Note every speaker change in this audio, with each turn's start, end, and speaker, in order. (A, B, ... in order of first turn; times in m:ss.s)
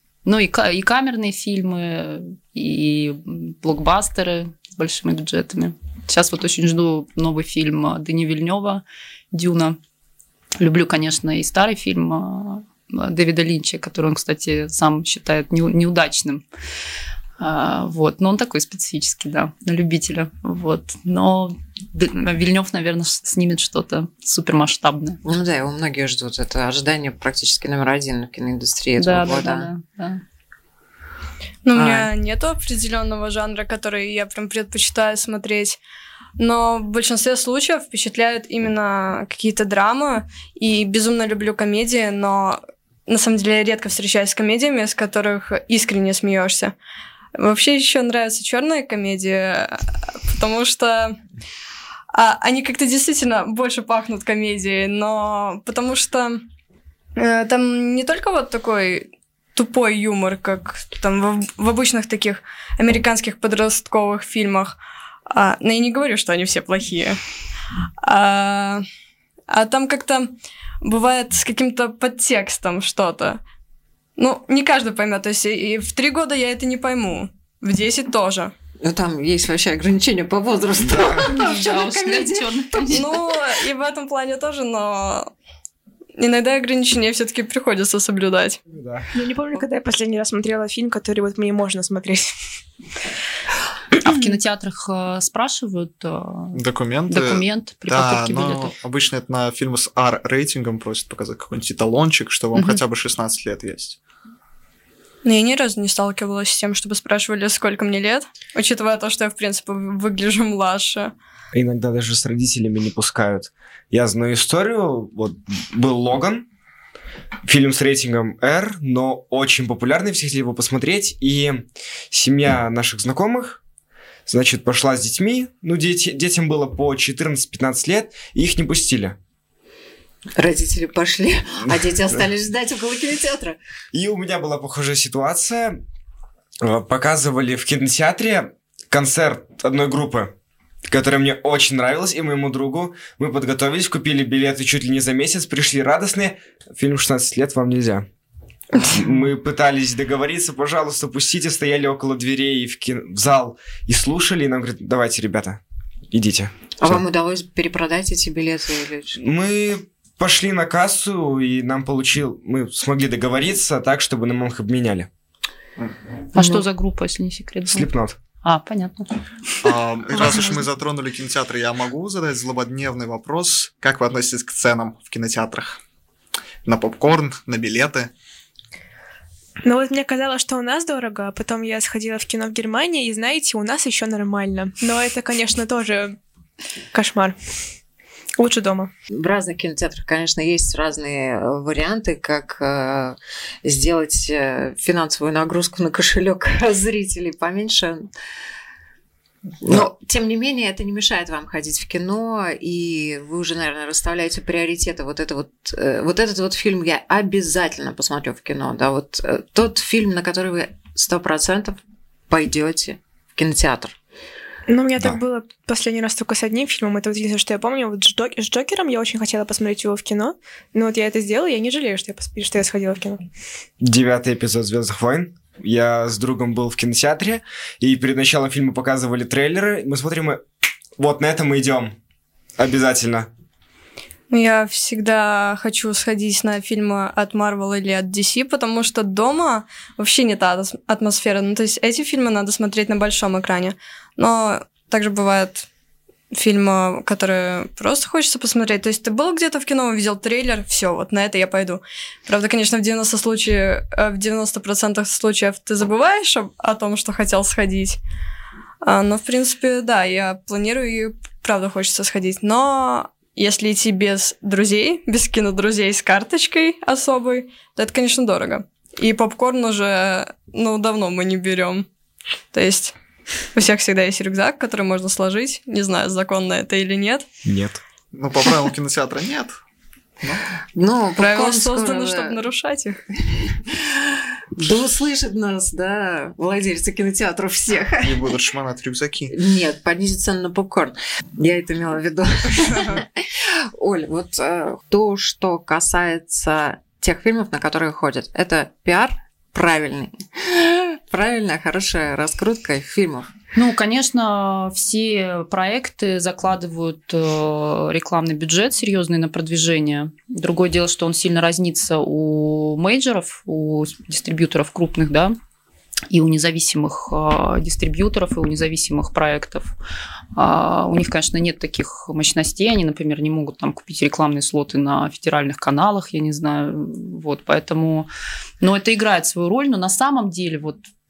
0:00.2-0:09.8 A
0:10.6-0:16.4 A
0:17.4-0:25.2 A
0:25.2-0:29.7 B
0:29.0-0:30.2 A
0:31.6-0:35.8 C
0:31.7-0:32.1 B
0:36.4-0:46.7 C
0:47.4-0:51.2 C
0:52.1-0:56.4 C
0:57.2-1:04.8 C
1:05.3-1:07.2 C
1:08.0-1:08.8 C
1:09.5-1:10.3 C
1:10.8-1:13.4 C
1:14.2-1:18.5 C
1:18.8-1:23.2 B
1:20.8-1:21.3 D
1:21.3-1:23.1 A
1:22.9-1:25.3 C
1:26.2-1:28.6 C
1:28.7-1:29.1 D
1:29.1-1:32.3 E
1:34.0-1:38.7 A
1:36.5-1:44.0 F
1:42.5-1:42.8 A
1:45.2-1:51.1 C
1:51.5-1:56.4 D
1:57.4-2:03.6 D
2:04.3-2:09.2 D
2:10.4-2:13.6 B
2:13.9-2:15.8 D
2:16.6-2:20.3 D
2:20.9-2:28.1 D
2:28.8-2:35.6 D
2:36.1-2:37.0 D
2:36.8-2:39.2 B
2:39.2-2:45.1 D
2:46.3-2:47.9 A
2:47.7-2:48.2 D
2:48.4-2:49.1 A
2:49.6-2:55.8 F
2:50.1-2:50.6 A
2:56.6-2:58.1 F
2:59.6-3:06.2 E
3:06.9-3:07.4 E
3:08.4-3:08.9 E
3:09.1-3:18.0 B
3:19.6-3:31.8 B
3:32.3-3:34.0 B
3:34.7-3:43.2 E
3:43.8-3:50.4 D
3:51.0-3:51.9 D
3:52.6-3:53.3 D
3:54.3-4:05.7 C
4:06.3-4:18.0 C
4:18.8-4:31.8 C
4:32.5-4:32.9 C
4:33.5-4:37.2 C
4:37.4-4:37.8 D
4:38.1-4:39.6 F
4:40.8-4:42.4 B
4:41.2-4:43.0 C
4:44.6-4:48.2 B
4:48.0-4:49.3 F
4:49.3-4:53.1 B
4:53.8-5:03.3 B
5:03.6-5:15.4 A
5:16.1-5:19.7 A
5:20.3-5:28.1 A
5:28.6-5:30.8 A